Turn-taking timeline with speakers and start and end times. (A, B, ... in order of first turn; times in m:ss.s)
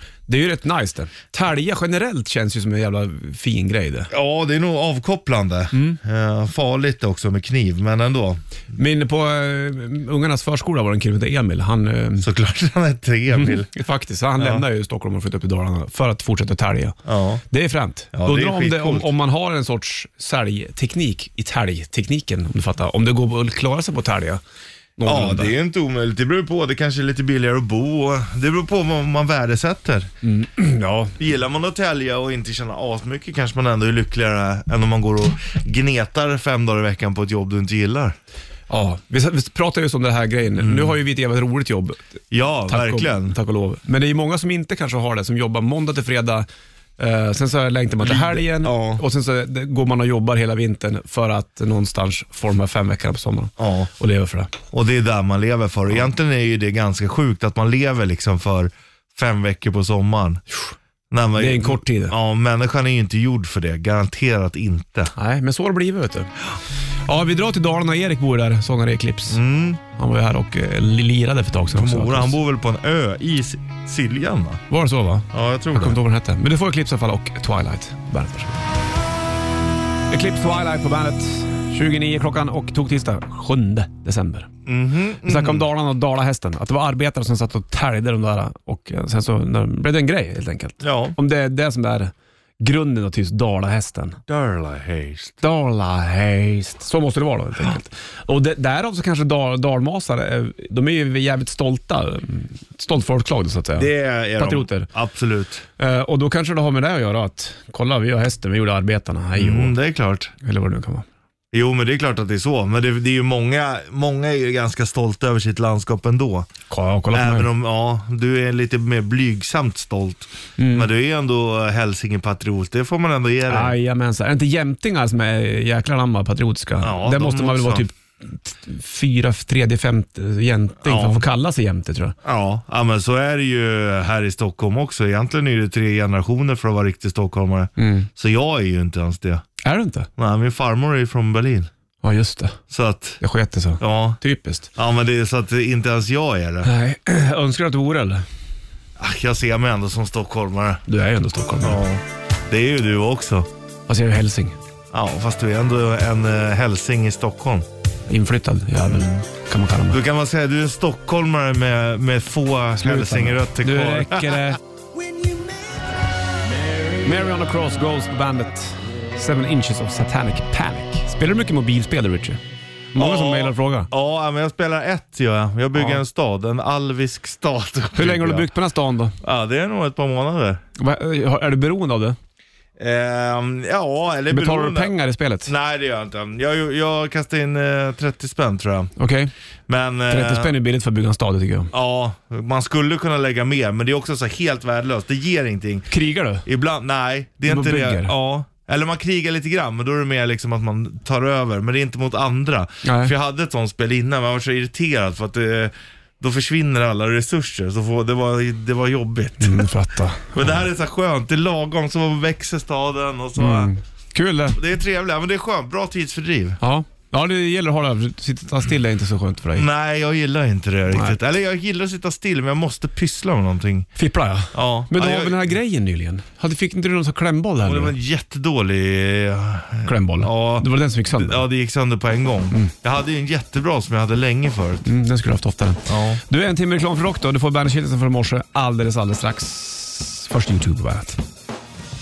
0:00.3-0:04.1 A
0:04.1-0:08.4 B
0:05.7-0:06.0 A
0:08.7-0:12.3 A
0:12.2-0:13.7 B
0:13.3-0:17.0 A
0:14.4-0:14.6 B
0:17.0-0:17.4 B
0:17.5-0:24.4 A
0:18.1-0:19.1 B
0:25.0-0:25.5 A
0:25.0-0:30.1 B
0:30.2-0:31.2 A
0:31.2-0:38.2 B
0:38.7-0:42.0 A
0:40.6-0:41.0 B
0:42.3-0:43.4 B
0:42.7-0:46.5 A
0:47.0-0:54.5 A
0:48.0-0:49.0 B
0:53.6-0:53.9 B
0:54.7-1:00.4 B
1:01.1-1:05.1 B
1:01.4-1:02.2 A
1:05.1-1:06.3 A
1:07.0-1:09.4 A
1:09.3-1:09.8 B
1:09.9-1:12.4 A
1:11.7-1:14.6 B
1:14.7-1:18.7 A
1:15.3-1:16.0 B
1:20.1-1:24.5 A
1:24.6-1:25.7 B
1:25.2-1:34.2 A
1:30.8-1:31.2 B
1:34.3-1:35.4 B
1:35.4-1:44.9 A
1:43.7-1:45.6 B
1:45.8-1:49.7 A
1:49.4-1:50.3 B
1:50.4-1:51.0 A
1:51.5-1:56.5 B
1:56.7-1:57.5 A
1:57.1-2:03.8 B
2:00.6-2:00.9 A
2:03.5-2:12.2 A
2:06.8-2:07.9 B
2:10.8-2:11.3 B
2:12.2-2:19.4 B
2:17.8-2:18.1 A
2:19.6-2:20.1 A
2:20.2-2:21.7 B
2:22.0-2:22.6 A
2:22.7-2:23.2 B
2:23.2-2:24.7 A
2:23.8-2:24.2 B
2:24.8-2:26.7 B
2:26.6-2:28.2 A
2:29.0-2:30.8 B
2:30.9-2:31.8 A
2:31.6-2:33.5 B
2:33.9-2:34.6 A
2:34.9-2:37.7 B
2:38.1-2:40.0 A
2:38.8-2:39.2 B
2:39.9-2:44.5 B
2:42.8-2:44.6 A
2:47.0-2:52.4 A
2:52.9-2:53.9 A
2:53.0-2:58.5 B
2:55.7-2:56.0 A
2:58.0-2:59.2 A
2:59.2-3:00.6 B
3:00.8-3:02.2 A
3:02.8-3:04.9 B
3:04.3-3:05.5 A
3:05.4-3:08.9 B
3:09.0-3:09.3 A
3:09.7-3:10.5 B
3:10.1-3:11.7 A
3:11.7-3:15.9 B
3:15.9-3:16.4 A
3:16.4-3:29.7 B
3:17.5-3:18.1 A
3:22.8-3:23.1 A
3:29.4-3:30.6 A
3:30.3-3:33.7 B
3:33.4-3:34.6 A
3:34.5-3:36.6 B
3:36.6-3:39.7 A
3:39.5-3:43.9 B
3:40.9-3:41.2 A
3:44.0-3:47.9 A
3:44.5-3:45.5 B
3:47.6-3:54.8 B
3:49.8-3:51.4 A
3:54.8-4:01.2 A
3:55.9-3:56.2 B